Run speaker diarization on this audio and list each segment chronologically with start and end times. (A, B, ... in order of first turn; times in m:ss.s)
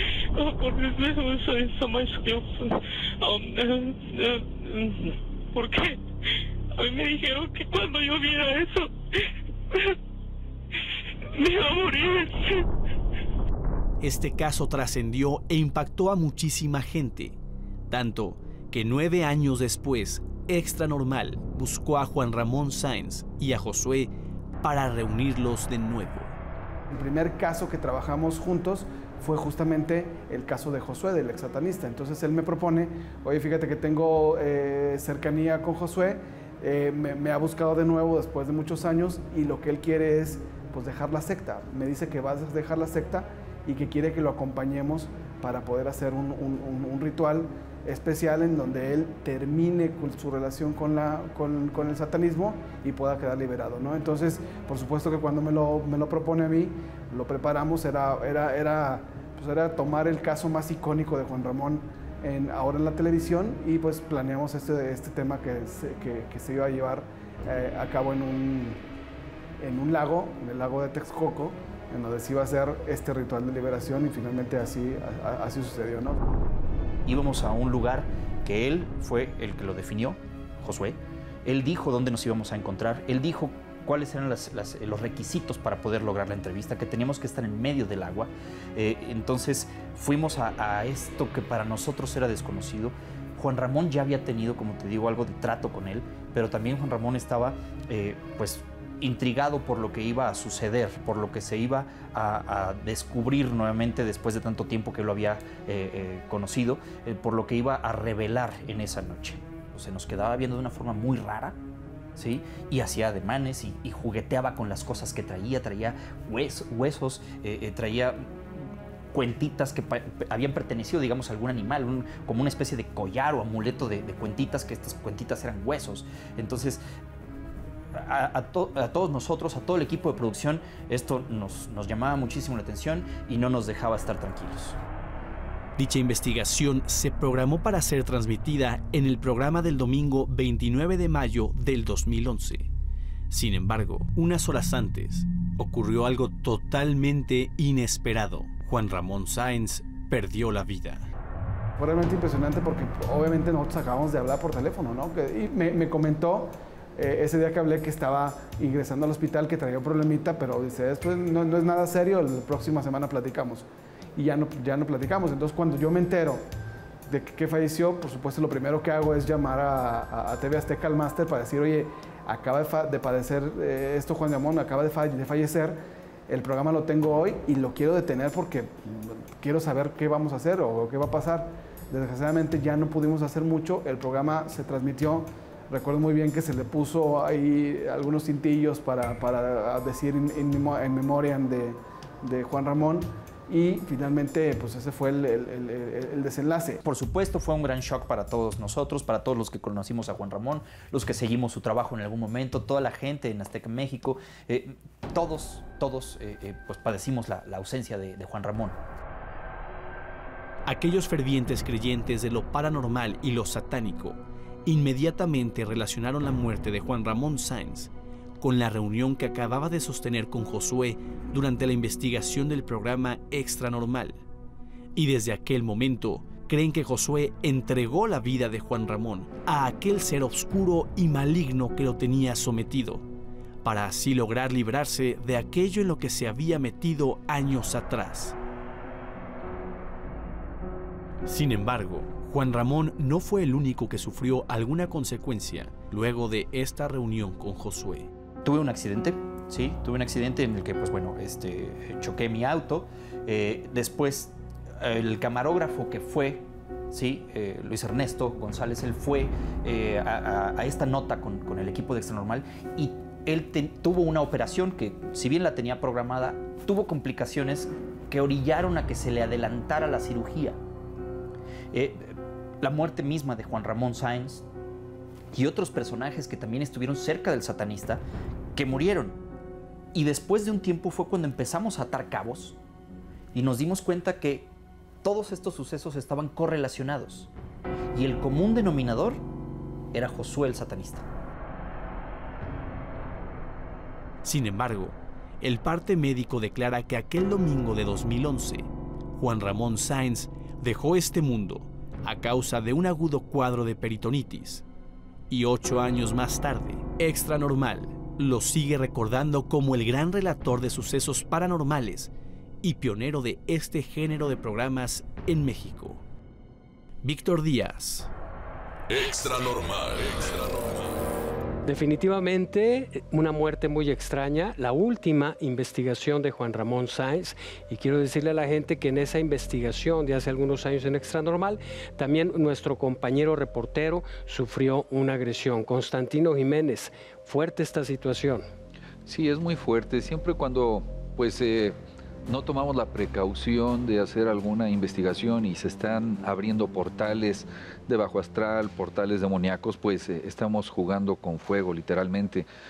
0:00.4-0:06.0 A
0:06.8-0:08.9 A
0:11.4-0:12.7 A
0:14.0-0:17.4 B
0:17.9-0:26.3 B
0:26.9-1:08.8 C
1:09.6-1:16.2 C
1:17.1-1:51.6 D
1:52.2-1:58.3 D
1:59.1-2:06.8 D
2:08.0-2:14.8 D
2:15.8-2:22.7 B
2:23.3-2:31.0 B
2:31.8-2:46.4 C
2:47.1-3:16.8 C
3:16.8-3:28.8 D
3:30.7-3:44.2 B
3:45.0-3:53.0 B
3:53.6-3:58.4 B
4:01.3-4:08.1 B
4:08.4-4:30.6 D
4:31.7-4:34.5 D
4:35.3-4:38.0 D
4:38.6-4:39.2 D
4:39.9-4:42.6 D
4:43.3-4:44.5 D
4:45.0-4:47.3 D
4:47.9-4:49.2 D
4:49.9-4:51.0 D
4:54.2-5:04.6 B
5:05.3-5:16.0 B
5:17.0-5:18.1 B
5:18.9-5:21.1 E
5:21.7-5:38.5 F
5:39.1-5:52.5 G